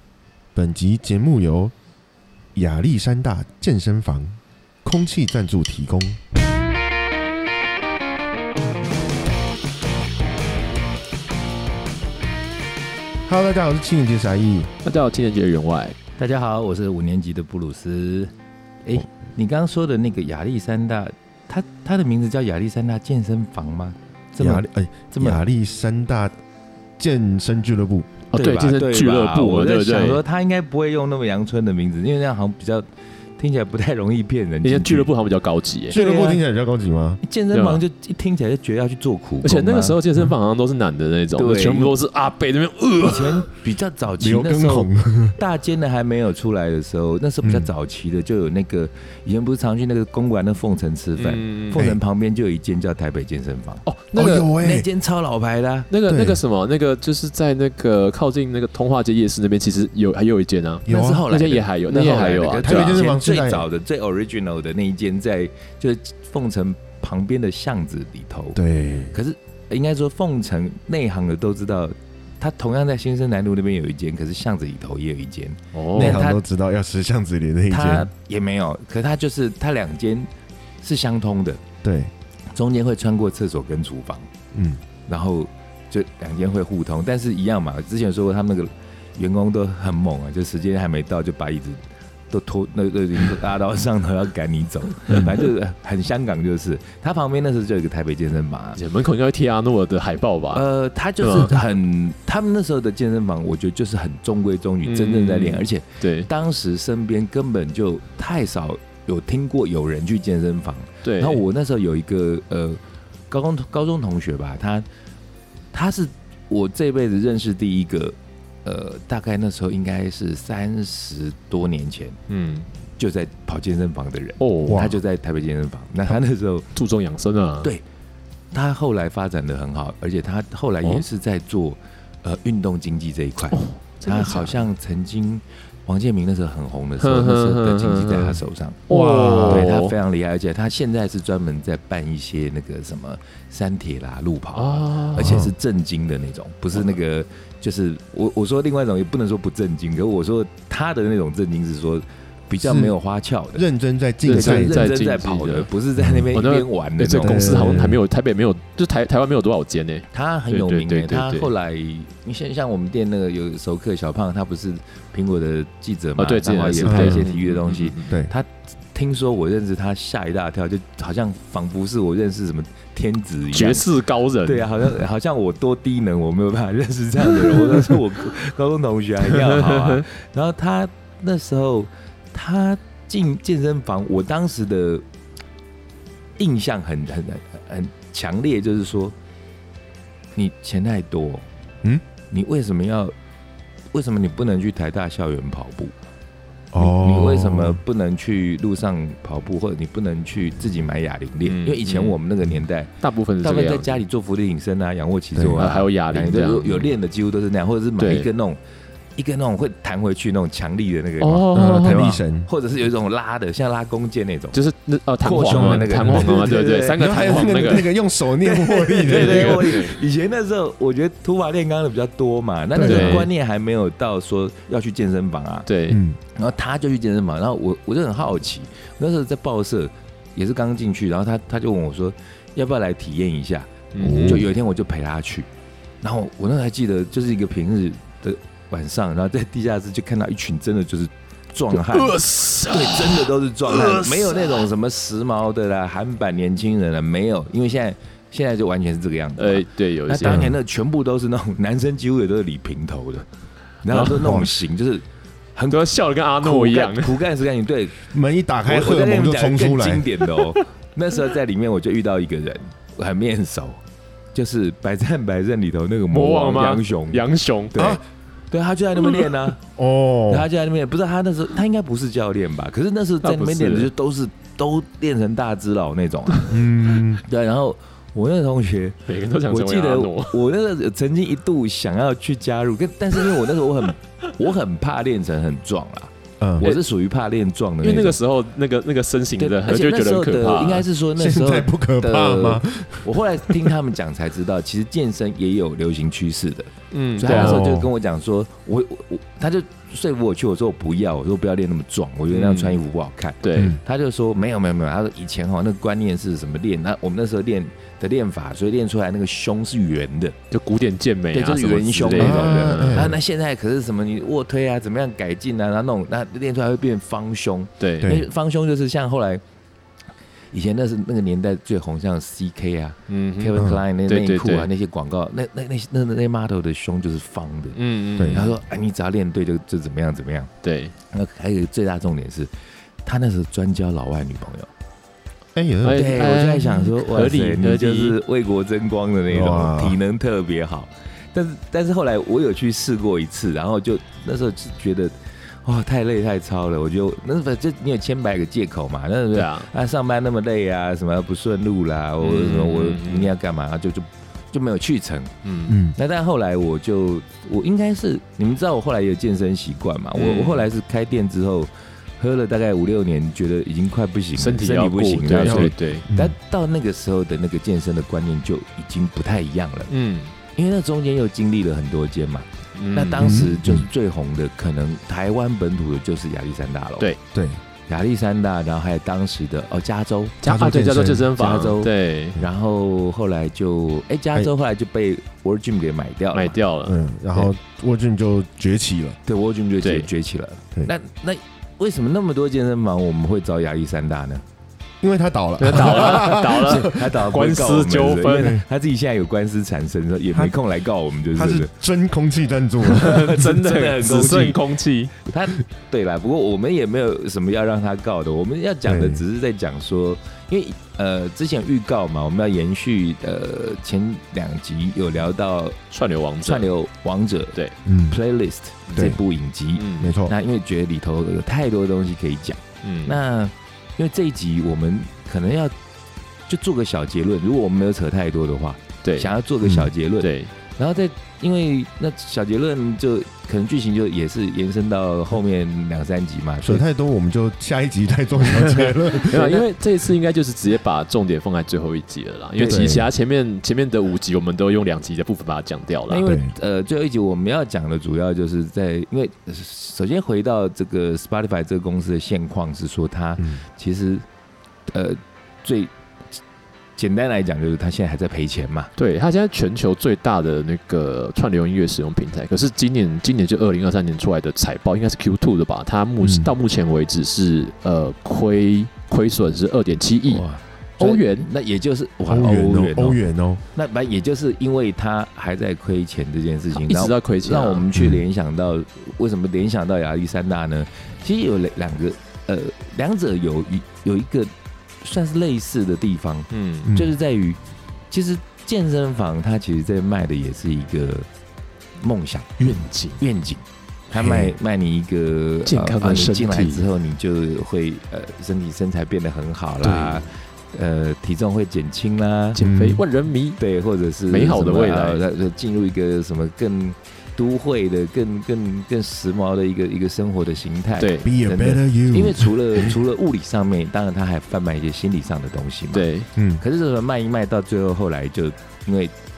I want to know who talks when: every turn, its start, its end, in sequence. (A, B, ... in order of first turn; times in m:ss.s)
0:00.5-0:01.7 A
0:02.5-0:06.2 A
0:13.3-0:14.7 A
0:14.8-0:16.0 B
0:16.2-0:18.3 C
0:18.8-0:25.4 C
0:24.4-0:26.4 A
0:27.0-0:28.1 A
0:28.3-0:30.2 B
0:28.4-0:32.8 C
0:33.4-0:35.1 C
0:34.6-0:36.0 B
0:35.9-0:36.4 C
0:35.9-0:37.2 A
0:37.2-0:40.0 C
0:37.5-0:37.8 B
0:39.4-0:43.4 B
0:41.4-0:42.0 C
0:43.0-0:53.8 C
0:44.2-0:45.4 A
0:47.4-0:47.7 A
0:51.2-0:51.8 B
0:53.8-0:54.5 B
0:54.1-0:54.9 A
0:54.5-0:55.9 C
0:55.9-1:03.1 B
0:56.0-0:56.4 A
1:00.8-1:01.3 A
1:00.9-1:08.6 C
1:02.6-1:03.6 A
1:08.5-1:09.1 A
1:09.1-1:16.4 C
1:15.7-1:16.2 B
1:15.9-1:18.1 A
1:17.7-1:20.3 C
1:20.8-1:21.6 C
1:21.8-1:22.1 A
1:22.5-1:24.3 C
1:24.5-1:24.8 A
1:25.1-1:38.8 C
1:38.8-1:40.6 B
1:40.5-1:54.8 C
1:41.2-1:41.6 B
1:44.8-1:46.3 B
1:51.0-1:51.4 B
1:55.7-2:02.2 C
2:02.3-2:02.7 B
2:03.0-2:06.7 C
2:04.4-2:04.8 B
2:04.6-2:05.0 A
2:06.7-2:07.7 B
2:08.5-2:18.9 C
2:13.5-2:14.6 B
2:17.0-2:19.9 B
2:18.9-2:19.7 A
2:19.4-2:33.6 C
2:24.6-2:25.4 B
2:25.2-2:25.5 A
2:32.6-2:32.9 A
2:33.5-2:34.9 A
2:34.2-2:35.7 B
2:34.3-2:37.6 C
2:36.0-2:36.3 A
2:36.3-2:41.5 B
2:37.2-2:38.0 A
2:40.1-2:53.9 C
2:46.2-2:48.1 B
2:46.8-2:47.3 A
2:53.5-2:54.8 B
2:54.4-3:05.0 C
2:59.4-3:00.0 B
3:06.4-3:09.1 C
3:10.4-3:11.4 C
3:12.3-3:13.1 C
3:13.9-3:15.9 C
3:16.7-3:17.8 A
3:16.8-3:28.6 C
3:21.4-3:22.2 B
3:23.0-3:24.0 B
3:25.3-3:25.6 A
3:25.6-3:26.9 B
3:28.0-3:28.3 B
3:29.2-3:34.6 C
3:31.2-3:32.2 B
3:31.5-3:32.5 A
3:34.5-3:37.9 B
3:35.2-3:45.7 C
3:35.5-3:36.4 A
3:37.0-3:39.8 A
3:39.0-3:40.0 B
3:42.7-3:43.3 A
3:42.8-3:43.3 B
3:45.7-3:46.0 B
3:45.9-3:46.2 A
3:46.3-3:55.5 C
3:54.0-3:54.5 B
3:56.0-4:13.2 C
4:01.7-4:04.7 B
4:09.4-4:10.5 B
4:10.2-4:10.5 A
4:13.8-4:15.0 C
4:13.9-4:14.3 B
4:14.2-4:14.5 A
4:15.6-4:15.8 C
4:15.7-4:17.2 B
4:16.4-4:18.1 C
4:18.1-4:20.0 A
4:18.6-4:23.8 C
4:24.3-4:27.2 C
4:26.1-4:28.0 B
4:27.7-4:28.0 C
4:27.7-4:28.0 A
4:28.5-4:29.6 C
4:29.8-4:30.5 A
4:30.3-4:48.2 C
4:33.2-4:33.9 B
4:36.5-4:37.2 A
4:39.0-4:40.5 B
4:46.4-4:46.7 A
4:47.8-4:50.8 B
4:49.4-5:10.4 C
4:51.2-4:53.8 A
4:56.9-4:57.7 B
4:57.2-4:57.9 A
5:02.3-5:02.8 B
5:03.4-5:03.8 B
5:10.5-5:13.1 B
5:11.3-5:19.4 C
5:12.2-5:13.2 A
5:17.8-5:18.1 B
5:20.5-5:30.5 C
5:23.1-5:24.7 B
5:27.7-5:28.5 B
5:28.2-5:28.5 A
5:30.6-5:30.9 B
5:31.1-5:32.5 C
5:33.0-5:34.7 C
5:35.5-5:36.1 A
5:35.8-5:38.2 B
5:35.9-5:55.3 C
5:39.3-5:40.0 A
5:49.3-5:49.7 B
5:52.2-5:53.3 B
5:55.4-5:55.8 B
5:55.7-5:56.0 A
5:55.9-6:09.9 C
6:00.1-6:00.6 B
6:04.3-6:06.0 B
6:05.4-6:06.3 A
6:09.9-6:10.3 B
6:10.6-6:17.1 C
6:12.8-6:13.5 B
6:13.2-6:13.9 A
6:17.3-6:17.6 A
6:17.9-6:20.4 C
6:20.4-6:22.4 B
6:20.4-6:21.3 A
6:21.3-6:26.6 C
6:26.3-6:27.0 B
6:26.8-6:29.2 A
6:29.2-6:34.4 C
6:29.8-6:30.1 B
6:35.0-6:37.0 A
6:35.6-6:38.6 B
6:35.8-6:41.7 C
6:38.3-6:38.6 A
6:41.3-6:43.4 A
6:42.9-6:45.1 B
6:42.9-6:44.6 C
6:45.2-6:55.8 C
6:48.9-6:49.2 A
6:55.9-6:56.7 B
6:56.4-7:05.7 C
6:57.8-6:58.2 A
6:58.9-6:59.1 B
6:59.8-7:00.1 B
7:00.0-7:00.3 A
7:02.8-7:03.2 B
7:06.5-7:16.8 C
7:09.0-7:09.3 B
7:09.6-7:09.9 A
7:10.2-7:10.5 B
7:16.6-7:19.6 A
7:18.7-7:26.2 B
7:19.3-7:19.6 C
7:22.6-7:23.0 C
7:22.6-7:23.1 A
7:26.1-7:34.2 C
7:26.2-7:26.5 A
7:34.9-7:35.9 C
7:37.0-7:38.9 C
7:39.0-7:50.4 B
7:46.2-7:46.5 A
7:50.3-7:53.2 C
7:51.0-7:51.5 B
7:52.3-7:53.6 A
7:53.7-8:04.5 C
7:56.7-7:57.8 B
7:57.9-7:58.2 A
8:05.0-8:07.6 C
8:06.5-8:06.9 B
8:06.8-8:07.1 A
8:08.1-8:11.3 C
8:12.0-8:22.6 C
8:12.6-8:13.2 B
8:14.1-8:14.5 A
8:15.6-8:16.9 B
8:19.8-8:20.2 B
8:22.5-8:23.6 B
8:22.6-8:23.0 A
8:23.6-8:39.1 C
8:24.3-8:25.2 B
8:31.0-8:31.3 B
8:31.2-8:32.9 A
8:35.9-8:36.3 B
8:36.4-8:36.6 A